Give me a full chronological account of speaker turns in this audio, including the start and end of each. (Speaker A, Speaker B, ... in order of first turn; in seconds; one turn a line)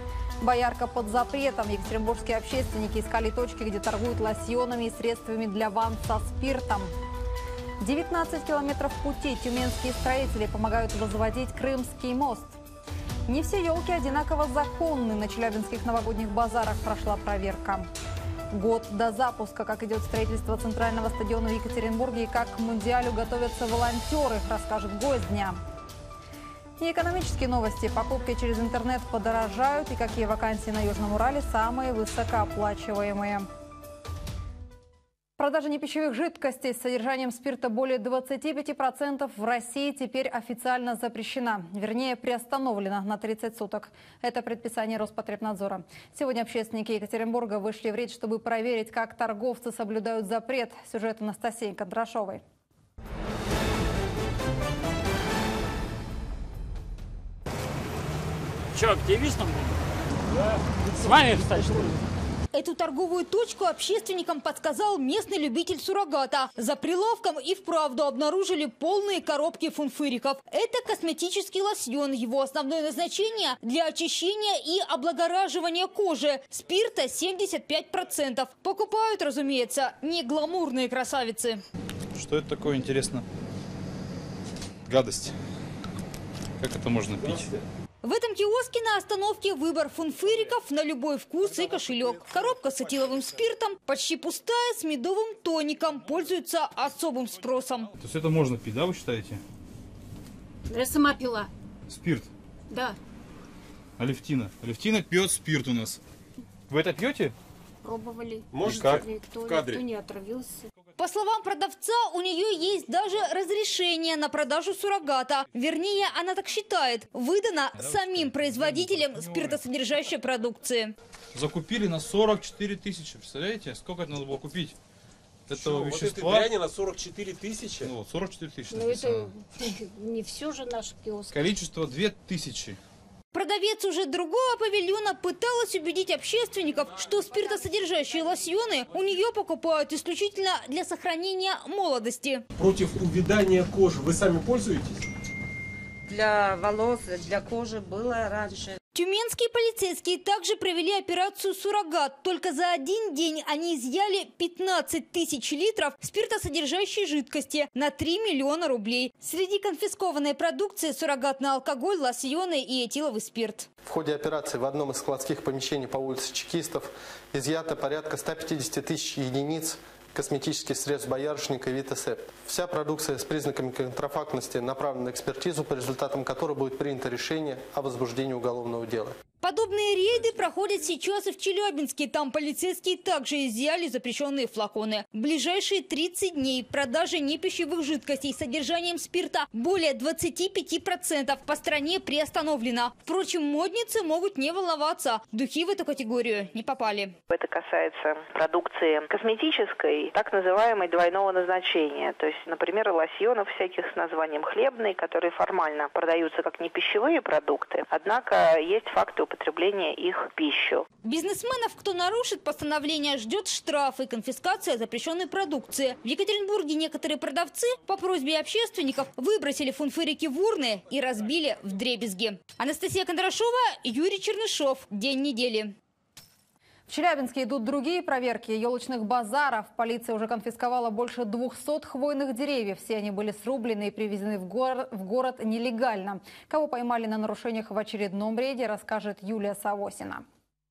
Speaker A: 0.4-6.9
Speaker A: 7.8-12.5
Speaker A: 13.3-17.9
Speaker A: 18.5-25.6
Speaker A: 26.8-33.5
Speaker A: 35.4-52.4
Speaker B: 58.7-59.7
Speaker B: 60.8-62.0
Speaker C: 62.5-81.6
Speaker D: 82.1-83.2
Speaker D: 84.9-85.3
Speaker D: 86.6-87.5
Speaker C: 88.0-97.9
Speaker D: 98.0-99.4
Speaker E: 100.8-101.5
Speaker D: 101.9-102.3
Speaker D: 104.0-106.0
Speaker D: 106.7-107.3
Speaker E: 107.9-108.4
Speaker F: 108.5-109.0
Speaker D: 108.6-109.8
Speaker E: 109.1-110.5
Speaker C: 111.0-120.9
Speaker D: 117.8-119.6
Speaker D: 121.3-124.8
Speaker D: 125.5-126.5
Speaker F: 125.5-127.9
Speaker D: 127.8-129.3
Speaker D: 131.3-132.8
Speaker C: 133.3-142.4
Speaker F: 142.6-145.0
Speaker G: 146.2-148.5
Speaker C: 148.9-163.7
Speaker H: 163.8-179.1
Speaker C: 179.4-197.1
Speaker I: 197.3-210.8
Speaker C: 211.0-225.7
Speaker A: 226.9-240.2